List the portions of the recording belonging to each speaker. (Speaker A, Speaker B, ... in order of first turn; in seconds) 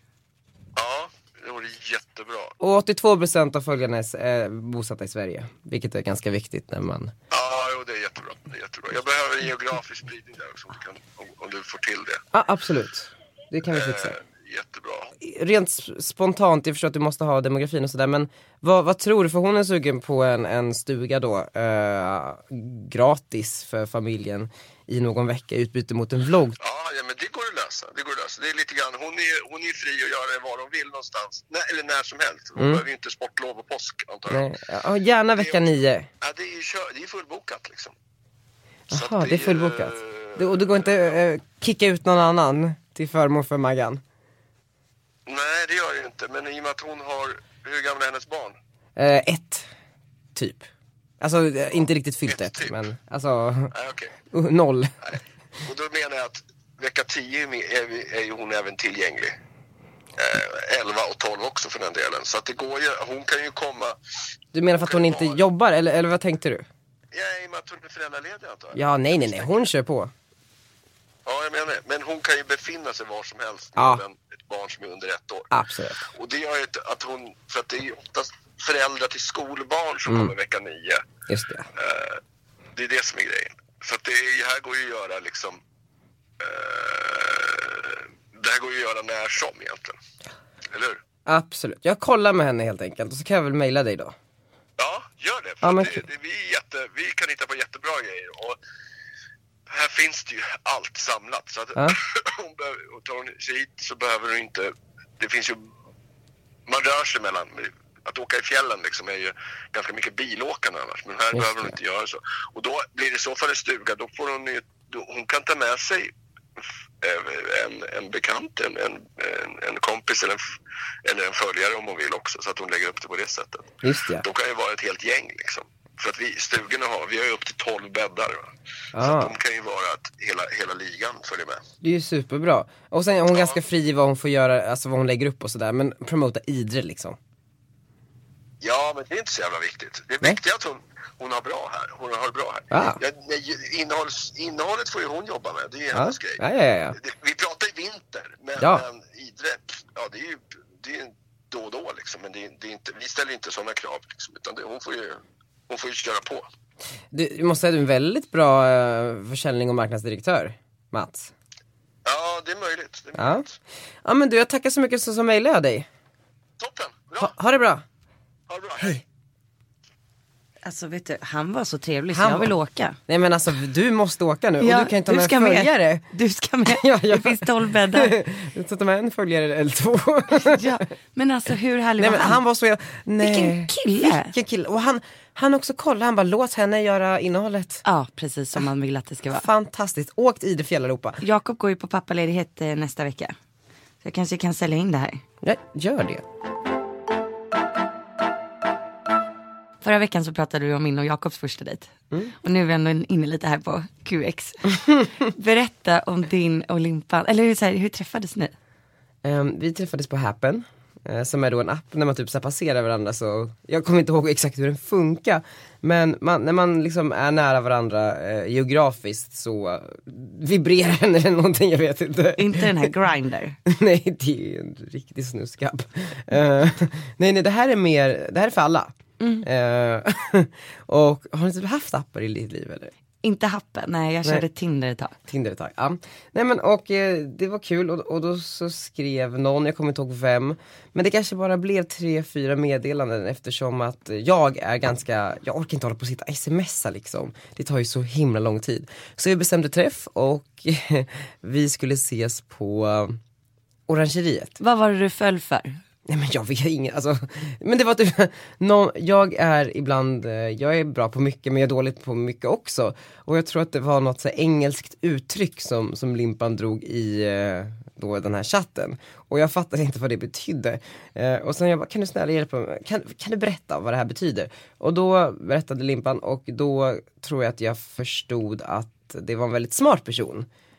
Speaker A: 0.8-2.5, 7.3-12.2, 13.7-15.1, 26.6-34.5, 35.4-35.6, 36.2-37.9, 38.9-41.1, 45.2-48.6, 52.3-52.8, 53.7-54.1, 55.0-59.4, 60.2-64.0, 64.7-65.4, 67.1-69.6, 71.2-75.5, 76.1-81.0, 81.8-82.2, 82.7-85.6, 86.4-90.0, 90.7-91.0, 94.8-98.6, 99.7-105.7, 106.7-116.1, 117.0-120.4, 121.0-131.6, 133.3-133.6, 138.6-146.4, 147.0-156.5, 162.1-163.5, 166.6-167.3, 168.5-169.0
Speaker B: 2.6-7.1, 12.3-14.2, 15.2-26.6, 32.6-32.8, 34.3-36.1, 38.9-44.0, 49.0-49.7, 50.3-50.7, 51.2-53.7, 54.3-54.9, 64.5-66.7, 68.7-70.1, 73.8-74.0, 75.5-76.1, 80.0-80.3, 81.3-81.7, 91.2-94.1, 95.6-96.0, 111.3-111.7, 123.8-124.2, 128.9-129.3, 131.8-137.2, 142.7-143.0, 145.9-147.0, 148.6-148.8, 157.1-161.3, 163.2-163.4, 164.0-165.9, 167.2-167.8, 172.1-172.5, 173.1-176.0, 176.7-180.6, 182.0-187.8, 189.3-191.2, 195.4-196.2, 209.2-222.9, 223.7-232.9, 235.3-253.2, 253.9-254.6, 256.1-280.5
Speaker C: 170.6-173.0, 174.6-178.1, 180.3-182.4, 183.2-184.3, 187.8-189.4, 191.2-193.3, 194.0-195.2, 199.8-208.5, 222.4-223.6, 229.2-229.4, 233.2-235.2, 254.6-255.8